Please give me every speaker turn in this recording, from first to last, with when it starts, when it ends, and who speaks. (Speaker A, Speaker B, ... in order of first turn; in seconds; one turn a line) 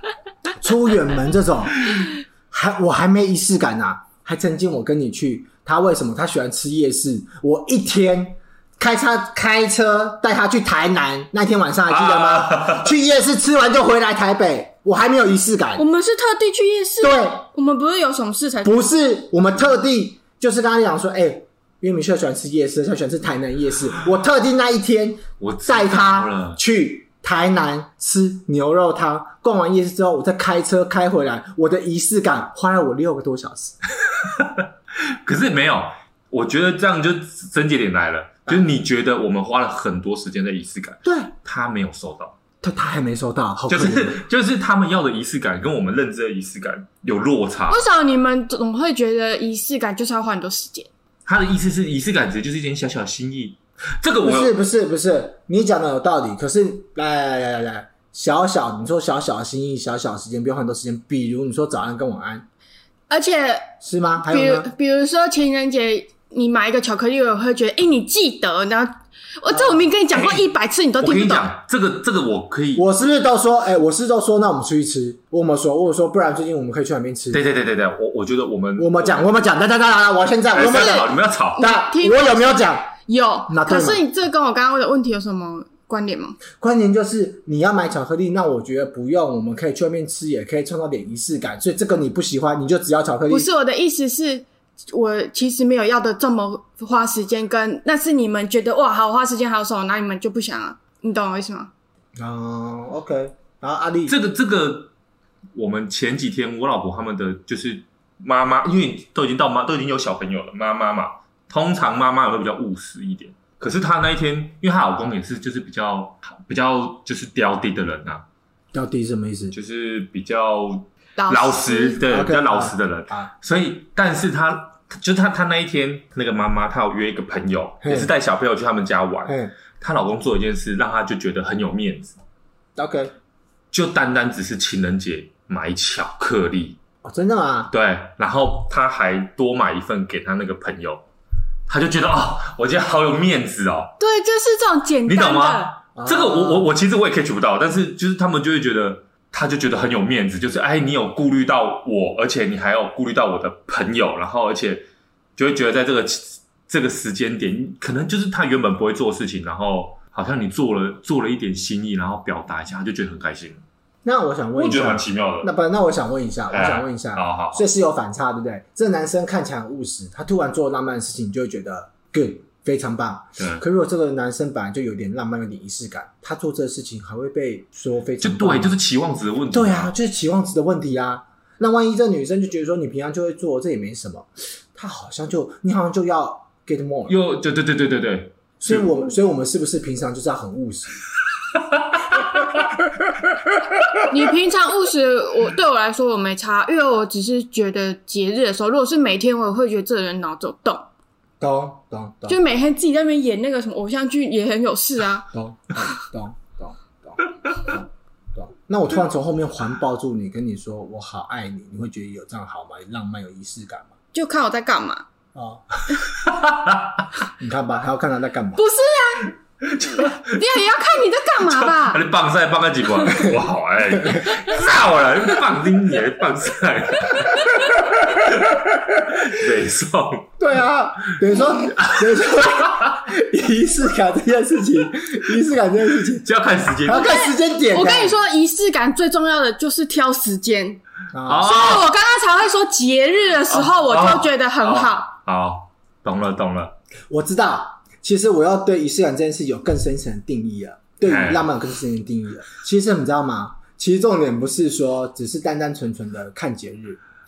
Speaker A: 0.6-15.8
Speaker B: 11.9-12.9
Speaker C: 15.8-18.8
Speaker A: 17.0-17.4
Speaker A: 18.6-33.8
Speaker B: 25.4-26.6
Speaker B: 34.4-42.4
Speaker A: 41.0-41.3
Speaker A: 42.6-44.2
Speaker B: 43.7-47.8
Speaker C: 47.7-50.9
Speaker B: 51.2-54.5
Speaker A: 54.2-62.5
Speaker C: 63.1-63.7
Speaker A: 63.8-64.7
Speaker C: 64.2-71.5
Speaker A: 69.5-69.9
Speaker B: 70.1-70.4
Speaker B: 71.0-72.8
Speaker A: 72.7-77.4
Speaker B: 77.3-79.3
Speaker A: 78.8-82.9
Speaker B: 80.5-81.6
Speaker C: 80.6-81.0
Speaker C: 81.5-86.4
Speaker A: 83.5-84.0
Speaker A: 86.6-93.5
Speaker C: 93.3-101.7
Speaker A: 102.2-104.2
Speaker B: 104.1-104.9
Speaker B: 105.5-118.2
Speaker A: 118.7-119.5
Speaker B: 119.5-132.2
Speaker C: 121.2-122.0
Speaker A: 122.1-123.3
Speaker A: 127.8-128.1
Speaker A: 129.3-129.5
Speaker A: 132.8-133.1
Speaker B: 133.7-136.8
Speaker A: 137.0-137.7
Speaker B: 137.7-141.0
Speaker B: 141.7-143.9
Speaker C: 144.0-145.7
Speaker B: 145.1-163.6
Speaker A: 145.9-146.7
Speaker A: 164.0-178.8
Speaker B: 164.6-165.5
Speaker B: 166.5-167.6
Speaker B: 173.4-173.6
Speaker B: 178.2-179.9
Speaker A: 179.5-187.2
Speaker B: 187.1-188.9
Speaker A: 188.6-191.0
Speaker C: 194.1-200.9
Speaker A: 201.4-202.4
Speaker C: 202.3-205.3
Speaker A: 205.3-213.9
Speaker C: 214.1-215.0
Speaker A: 215.3-215.6
Speaker B: 216.2-216.8
Speaker A: 217.4-218.6
Speaker C: 218.6-219.3
Speaker B: 219.6-220.4
Speaker C: 220.2-222.0
Speaker B: 221.5-230.3
Speaker A: 223.9-224.3
Speaker A: 230.4-236.3
Speaker B: 231.4-232.5
Speaker B: 236.2-237.1
Speaker A: 236.8-238.2
Speaker C: 236.9-240.8
Speaker A: 241.1-241.5
Speaker B: 241.2-241.9
Speaker C: 241.4-245.1
Speaker B: 243.5-246.8
Speaker A: 247.1-257.0
Speaker B: 251.1-251.5